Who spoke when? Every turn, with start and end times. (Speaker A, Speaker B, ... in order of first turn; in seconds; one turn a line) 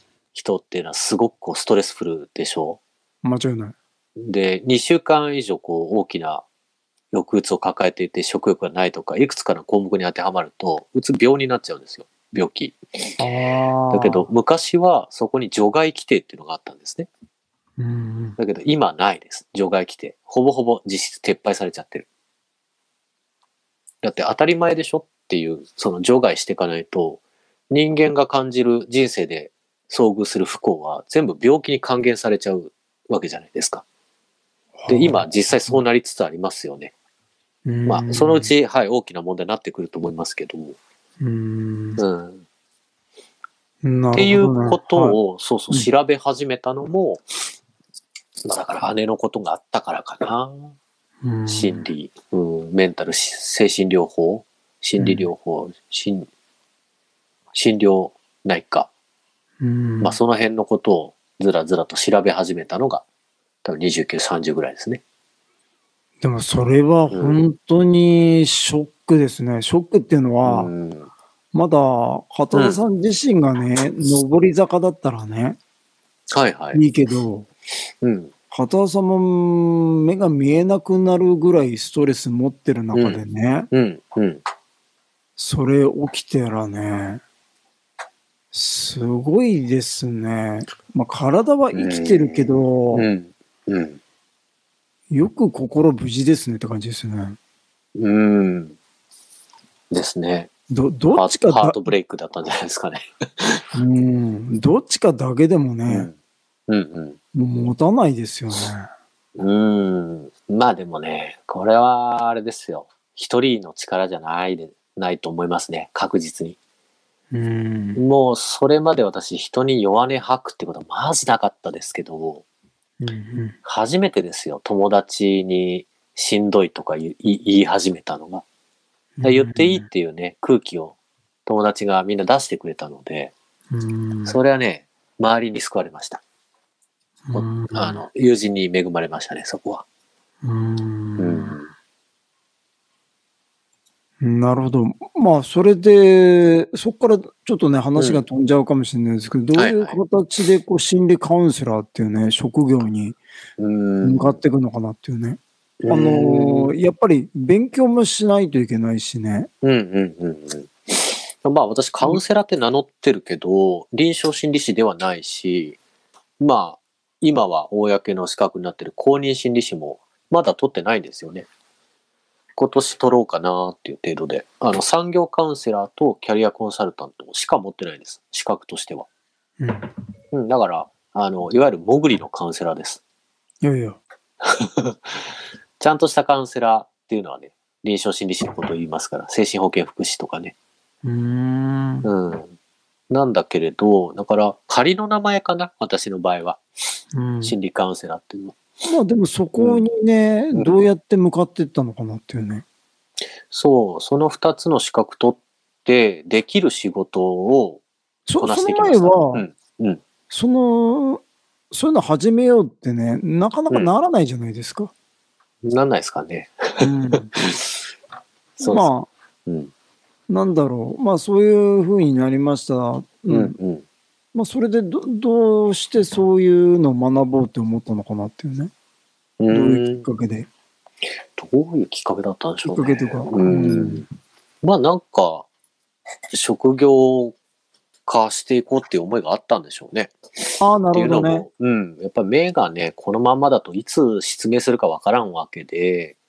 Speaker A: 0.3-2.8
Speaker B: 3.2-3.8
Speaker A: 4.2-6.5
Speaker A: 7.1-13.2
Speaker B: 13.2-14.3
Speaker A: 13.9-17.1
Speaker B: 17.8-18.4
Speaker A: 18.4-22.1
Speaker A: 24.0-33.8
Speaker B: 34.8-35.8
Speaker A: 34.9-36.9
Speaker B: 37.7-38.5
Speaker A: 37.9-40.8
Speaker B: 41.2-42.0
Speaker A: 42.0-42.5
Speaker B: 43.8-45.2
Speaker A: 44.1-47.2
Speaker A: 48.4-50.8
Speaker B: 51.2-51.9
Speaker A: 51.5-56.3
Speaker B: 55.0-55.3
Speaker A: 57.5-58.9
Speaker B: 59.6-60.2
Speaker A: 60.0-63.0
Speaker A: 63.6-65.0
Speaker B: 66.2-70.7
Speaker A: 67.1-67.4
Speaker A: 70.5-71.1
Speaker B: 71.5-75.6
Speaker A: 72.5-72.8
Speaker A: 76.3-76.8
Speaker B: 76.7-77.5
Speaker A: 78.0-78.3
Speaker B: 78.5-83.7
Speaker A: 82.9-84.4
Speaker B: 85.4-87.2
Speaker B: 88.5-93.1
Speaker A: 91.7-94.0
Speaker B: 95.1-97.4
Speaker A: 98.0-98.8
Speaker A: 99.9-100.5
Speaker B: 100.7-101.9
Speaker A: 101.1-103.7
Speaker B: 103.7-106.1
Speaker A: 105.9-106.1
Speaker A: 106.7-107.2
Speaker B: 107.3-108.9
Speaker A: 109.4-116.6
Speaker B: 117.3-118.0
Speaker A: 118.0-122.4
Speaker B: 123.0-123.6
Speaker A: 123.7-128.4
Speaker B: 129.2-129.9
Speaker A: 129.2-130.9
Speaker A: 131.5-133.3
Speaker B: 133.7-134.4
Speaker A: 134.3-136.2
Speaker B: 137.3-138.0
Speaker A: 137.3-139.8
Speaker B: 140.4-141.6
Speaker A: 141.2-141.7
Speaker B: 144.2-153.2
Speaker A: 148.0-148.2
Speaker A: 149.6-150.0
Speaker A: 153.6-154.4
Speaker B: 154.0-159.5
Speaker A: 155.8-156.7
Speaker A: 159.6-165.8
Speaker A: 166.4-171.5
Speaker A: 172.6-179.1
Speaker B: 179.6-179.9
Speaker A: 180.3-183.0
Speaker B: 183.6-184.0
Speaker A: 184.4-190.6
Speaker B: 191.0-192.1
Speaker A: 192.0-192.5
Speaker A: 193.1-196.6
Speaker B: 197.1-197.6
Speaker A: 197.4-198.6
Speaker B: 198.9-202.7
Speaker A: 199.6-199.9
Speaker A: 203.5-207.8
Speaker B: 208.3-209.4
Speaker A: 208.4-210.0
Speaker B: 210.3-214.9
Speaker A: 215.6-217.9
Speaker B: 216.8-217.3
Speaker B: 218.6-219.1
Speaker A: 218.6-218.9
Speaker A: 219.5-219.7
Speaker B: 220.3-223.6
Speaker A: 223.3-223.8
Speaker B: 224.3-228.7
Speaker A: 229.4-230.1
Speaker B: 229.5-230.5
Speaker A: 231.3-234.1
Speaker B: 232.7-234.1
Speaker A: 234.6-235.5
Speaker A: 236.3-237.3
Speaker A: 238.1-246.2
Speaker B: 240.6-241.5